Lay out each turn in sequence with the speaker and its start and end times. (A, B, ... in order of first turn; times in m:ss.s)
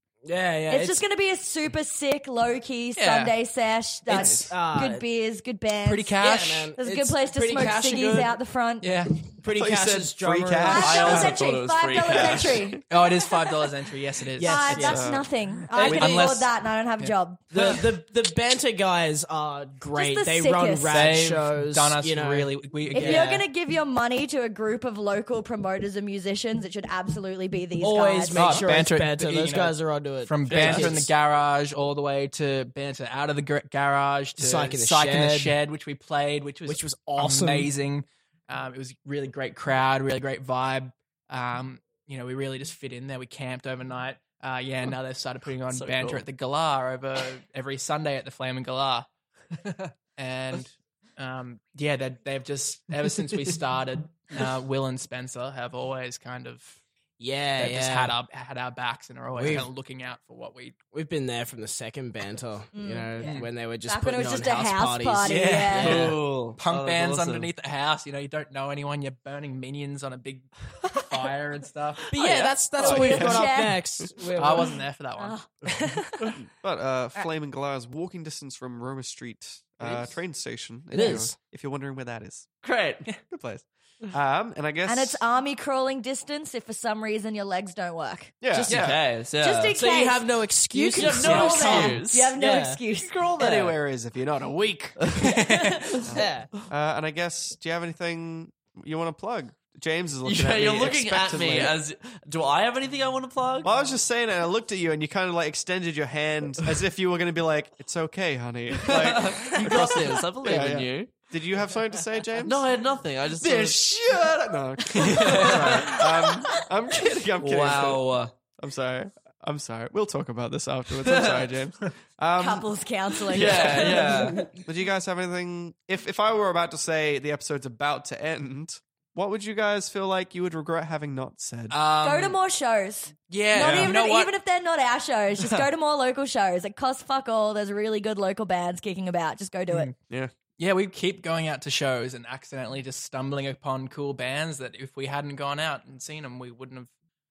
0:00.2-0:01.0 A
0:00.7-0:08.9 B
0:03.0-0:03.3 C
0:04.1-0:05.0 A
0:04.2-0:04.4 D
0:05.8-0:06.7 C
0:06.2-0:08.4 A
0:08.8-0:09.3 C
0:09.4-0:11.2 A
0:09.5-0:11.3 D
0:10.6-0:13.5 B
0:10.8-0:11.4 C
0:11.0-0:12.7 E
0:12.1-0:12.6 D
0:12.9-0:14.9 C
0:14.3-0:15.2 A
0:14.4-0:17.8 B
0:14.8-0:15.3 D
0:15.7-0:16.4 A
0:15.8-0:17.8 C
0:17.5-0:23.4 A
0:19.9-0:20.9 B
0:20.9-0:23.4 C
0:22.9-0:28.7 B
0:27.8-0:31.1 A
0:28.3-0:56.8 C
0:30.5-0:31.0 E
0:34.4-0:35.6 A
0:36.6-0:37.7 A
0:45.7-0:46.2 E
0:57.2-0:58.2 A
0:57.6-1:00.8 C
0:59.3-0:59.7 A
1:00.9-1:06.1 A
1:02.7-1:06.1 B
1:03.2-1:03.5 C
1:05.2-1:12.1 C
1:05.7-1:07.5 E
1:12.1-1:14.8 A
1:12.2-1:12.5 E
1:12.8-1:13.8 B
1:12.8-1:13.2 C
1:12.8-1:14.1 D
1:14.4-1:16.3 C
1:15.2-1:15.5 B
1:16.4-1:22.5 D
1:19.8-1:20.1 A
1:20.9-1:21.4 A
1:22.6-1:23.0 E
1:23.3-1:25.2 D
1:24.8-1:28.3 B
1:28.4-1:29.0 D
1:28.5-1:28.9 A
1:28.6-1:29.8 E
1:29.4-1:33.2 B
1:29.7-1:32.8 A
1:30.9-1:32.3 E
1:33.0-1:33.7 E
1:33.4-1:35.1 D
1:35.2-1:35.9 C
1:36.0-1:41.7 D
1:36.1-1:36.6 A
1:40.2-1:43.7 E
1:43.6-1:52.7 D
1:48.8-1:51.1 E
1:52.4-1:53.9 E
1:53.4-1:58.0 D
1:55.0-1:56.0 E
1:55.1-1:56.0 C
1:57.4-1:58.3 E
1:58.6-2:02.7 D
2:01.0-2:01.5 E
2:02.4-2:04.5 B
2:03.3-2:04.0 D
2:03.3-2:04.4 E
2:04.6-2:11.8 D
2:11.7-2:12.4 C
2:12.0-2:19.9 B
2:13.3-2:14.3 C
2:13.6-2:14.0 D
2:19.7-2:19.9 C
2:20.1-2:20.3 D
2:20.6-2:26.9 C